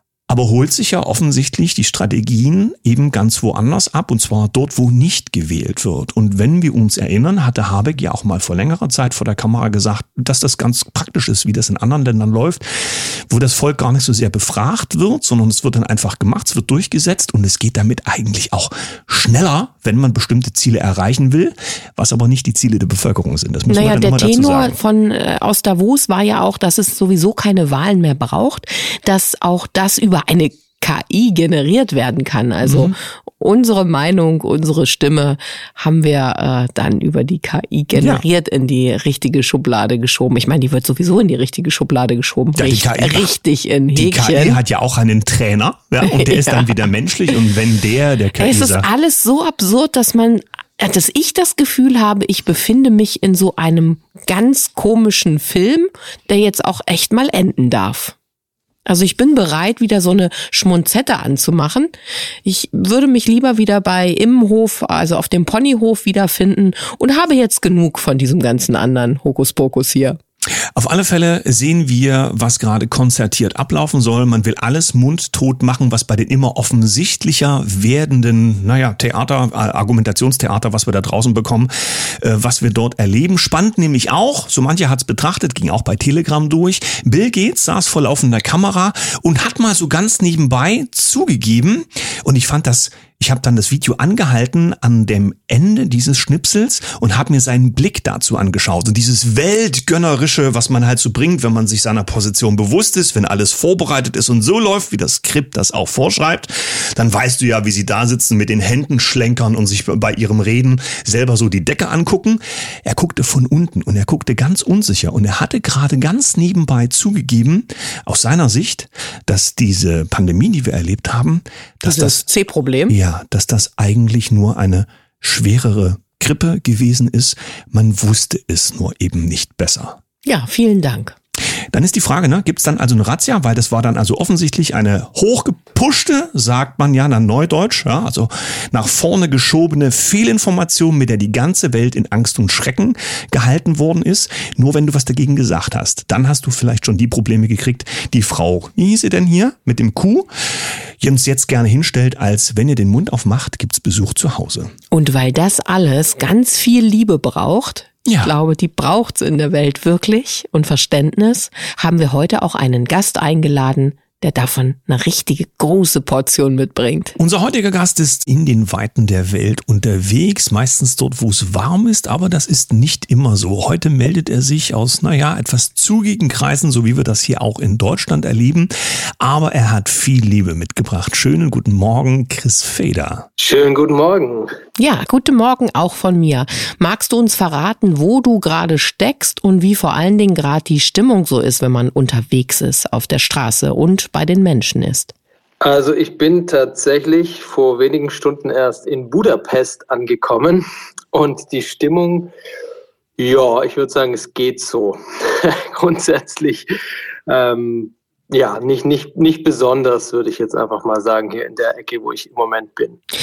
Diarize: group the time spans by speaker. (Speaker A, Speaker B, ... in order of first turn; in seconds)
Speaker A: 0.3-24.8, 32.6-33.0, 37.9-38.2, 42.5-43.3, 43.9-48.9, 70.8-122.2, 122.9-130.0, 131.7-150.3, 151.0-154.7, 158.0-158.3, 167.2-183.3
Speaker B: 23.7-44.6, 46.0-46.8, 48.4-58.1, 58.9-61.9, 62.4-70.2, 121.8-123.0, 130.2-131.2, 154.9-167.2, 184.8-195.1
Speaker C: 183.4-184.6, 195.6-202.3, 203.2-206.7, 207.3-213.0